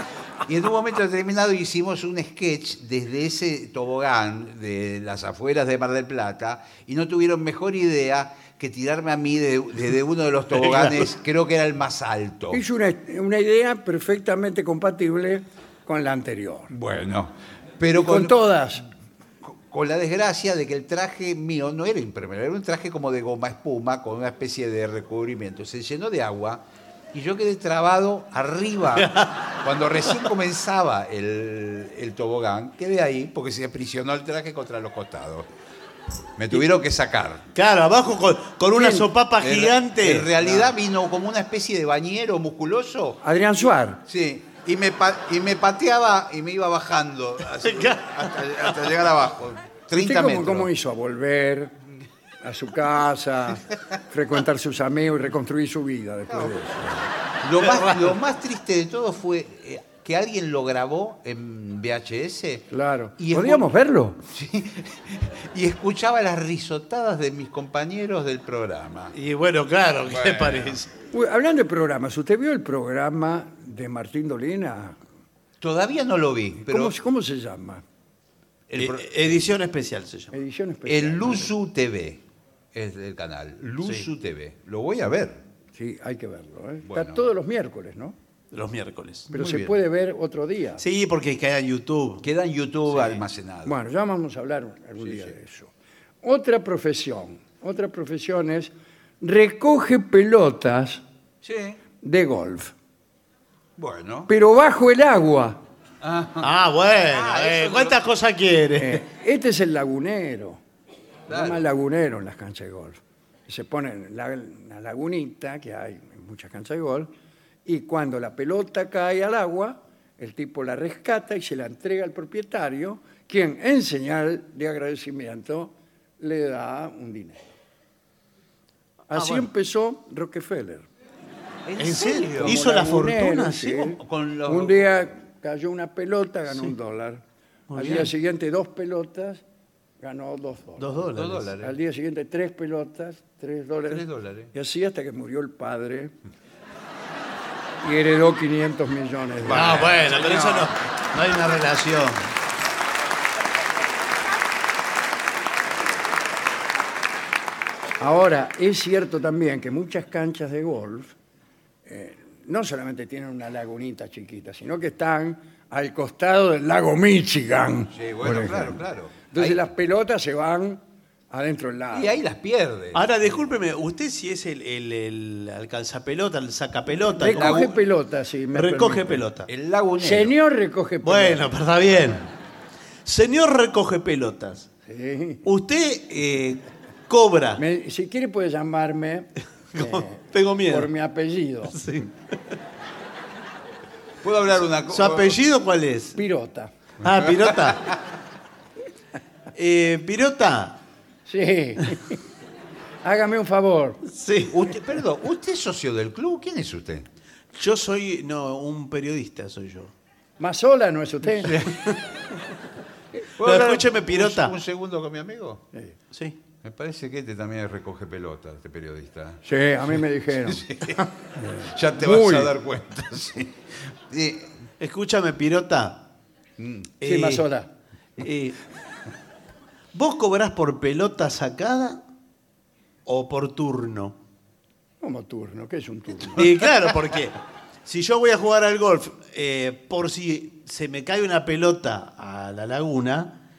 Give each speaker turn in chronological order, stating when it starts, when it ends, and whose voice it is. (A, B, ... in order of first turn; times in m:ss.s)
0:00.4-0:12.6 A
0:10.6-0:11.0 B
0:12.5-0:16.7 C
0:16.7-0:18.4 A
0:17.9-0:18.9 C
0:19.4-0:35.5 A
0:29.0-0:29.5 B
0:36.4-0:37.4 A
0:37.6-0:40.3 B
0:38.7-0:39.1 C
0:39.4-0:43.2 A
0:43.2-0:44.0 C
0:44.0-0:50.7 A
0:47.6-0:48.8 B
0:49.9-0:51.7 C
0:52.4-0:57.1 C
0:57.4-1:03.6 A
1:02.7-1:04.2 C
1:04.3-1:09.1 A
1:09.1-1:10.9 B
1:10.1-1:10.8 A
1:11.1-1:15.0 C
1:15.6-1:17.0 A
1:16.6-1:17.8 C
1:18.7-1:19.4 A
1:18.8-1:20.3 B
1:20.3-1:21.5 C
1:20.9-1:25.4 A
1:25.7-1:28.2 C
1:26.9-1:27.2 A
1:28.5-1:29.3 B
1:29.3-1:30.8 C
1:29.3-1:29.8 A
1:30.8-1:32.3 B
1:32.2-1:33.7 A
1:32.9-1:33.2 B
1:33.6-1:35.7 C
1:36.2-1:41.0 C
1:41.4-1:41.8 A
1:42.0-1:42.7 C
1:43.8-1:44.3 A
1:44.3-1:45.6 C
1:46.0-1:46.5 A
1:46.4-1:49.0 B
1:47.1-1:48.1 A
1:48.8-1:50.6 C
1:51.3-1:57.1 C
1:51.3-1:51.6 A
1:57.7-2:07.4 C
2:09.1-2:10.9 C
2:09.1-2:09.5 B
2:11.6-2:12.6 A
2:11.8-2:13.9 B
2:12.4-2:17.2 C
2:13.9-2:14.9 A
2:17.7-2:18.1 B
2:17.7-2:19.4 C
2:20.0-2:26.1 C
2:20.8-2:21.5 B
2:21.1-2:21.7 A
2:23.9-2:24.5 A
2:27.8-2:30.2 C
2:29.4-2:30.6 A
2:29.5-2:32.2 B
2:38.0-2:41.1 C
2:41.9-2:52.2 C
2:47.9-2:49.6 A
2:51.9-2:53.0 A
2:52.9-2:57.8 B
2:57.2-2:59.2 C
2:57.3-2:57.7 A
2:58.5-2:59.5 B
2:59.5-3:00.3 A
3:00.0-3:01.5 C
3:01.0-3:02.3 B
3:03.0-3:04.7 B
3:04.9-3:05.4 C
3:05.4-3:07.6 B
3:07.6-3:11.8 C
3:09.7-3:10.9 B
3:11.7-3:12.1 B
3:14.2-3:15.4 A
3:14.9-3:16.2 B
3:16.1-3:16.7 C
3:17.0-3:18.0 B
3:19.6-3:20.8 B
3:21.3-3:22.2 C
3:23.0-3:24.0 C
3:24.0-3:24.6 B
3:24.5-3:27.1 A
3:27.6-3:29.9 B
3:30.4-3:31.7 C
3:31.6-3:32.0 B
3:33.4-3:35.6 A
3:33.4-3:34.6 B
3:36.1-3:36.4 B
3:36.6-3:39.4 A
3:39.4-3:42.5 C
3:40.5-3:44.5 A
3:44.8-3:46.1 B
3:46.6-3:46.9 A
3:47.0-3:47.4 B
3:47.0-3:47.7 C
3:48.2-3:48.6 B
3:49.9-3:52.0 B
3:53.0-3:54.2 B
3:55.0-3:56.5 C
3:56.4-4:03.4 B